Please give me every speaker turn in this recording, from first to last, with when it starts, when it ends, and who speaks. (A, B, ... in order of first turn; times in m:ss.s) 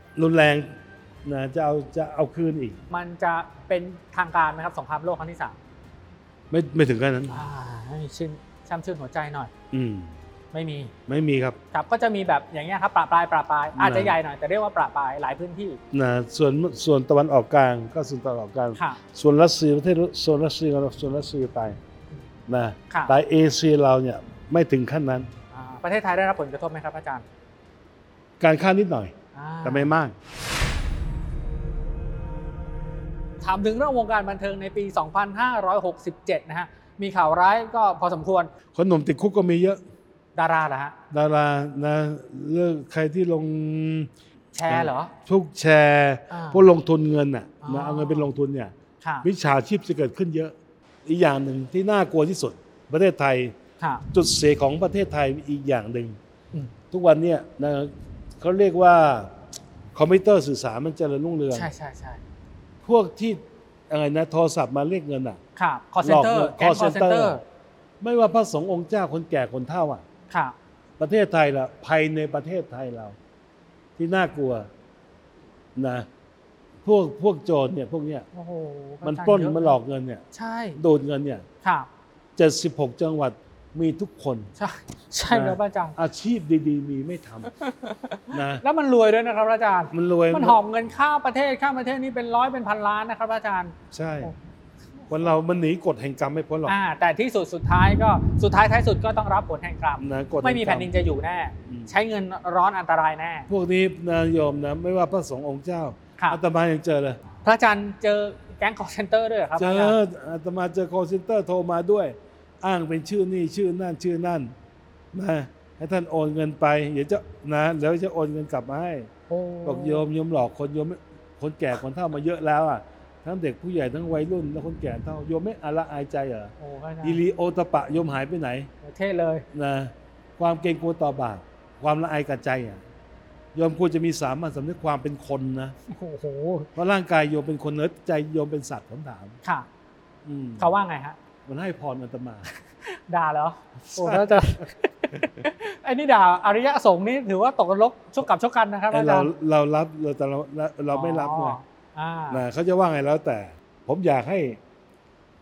0:00.2-0:02.8 A
0:02.9-0:05.6 B
0:06.5-0:07.4 A
0:07.3-0:09.5 B
0:09.7-0:10.2 A
0:10.5-0:10.9 B
0:11.1-0:11.6 A
0:11.7-0:15.8 B
0:13.8-0:14.2 A
0:15.9-0:21.8 A
0:18.8-0:19.0 B
0:22.5-0:25.3 A
0:22.9-0:23.2 B
0:25.5-0:27.2 B
0:28.4-0:30.2 A
0:29.3-0:29.9 B
0:33.4-0:38.5 B
0:38.7-0:39.8 A
0:40.4-0:41.0 B
0:41.1-0:44.1 A
0:44.5-0:45.1 B
0:44.7-0:48.7 A
0:46.3-0:46.7 B
0:47.6-0:48.3 B
0:49.0-0:49.3 B
0:49.2-0:53.6 A
0:53.8-0:54.0 B
0:54.1-0:56.2 A
0:56.9-0:59.4 A
0:59.9-1:01.7 A
1:01.5-1:02.2 B
1:02.8-1:05.4 A
1:05.6-1:07.4 B
1:06.0-1:07.4 A
1:08.0-1:10.0 A
1:10.3-1:10.6 B
1:11.0-1:13.2 A
1:14.0-1:14.7 A
1:15.8-1:16.1 A
1:16.8-1:18.3 A
1:18.3-1:19.8 B
1:19.0-1:20.2 A
1:20.3-1:20.8 B
1:20.8-1:21.5 A
1:21.6-1:21.9 B
1:22.4-1:24.5 A
1:24.6-1:26.0 B
1:25.3-1:27.5 A
1:27.6-1:34.4 B
1:28.3-1:28.6 A
1:29.9-1:30.6 A
1:33.9-1:34.3 A
1:35.0-1:35.4 B
1:35.1-1:36.8 A
1:36.7-1:43.5 B
1:40.0-1:40.9 A
1:41.7-1:41.9 A
1:43.5-1:47.2 A
1:47.4-1:50.0 B
1:49.6-1:54.5 A
1:55.1-1:59.1 A
1:59.3-2:00.1 B
1:59.6-2:08.7 A
2:06.6-2:07.2 B
2:08.8-2:09.5 B
2:09.5-2:12.8 A
2:13.6-2:15.8 A
2:15.9-2:16.7 B
2:16.8-2:19.4 A
2:20.2-2:20.7 A
2:20.6-2:21.2 B
2:21.4-2:22.5 A
2:22.8-2:29.3 B
2:23.8-2:25.3 A
2:28.9-2:31.6 A
2:30.9-2:32.4 B
2:32.3-2:34.6 A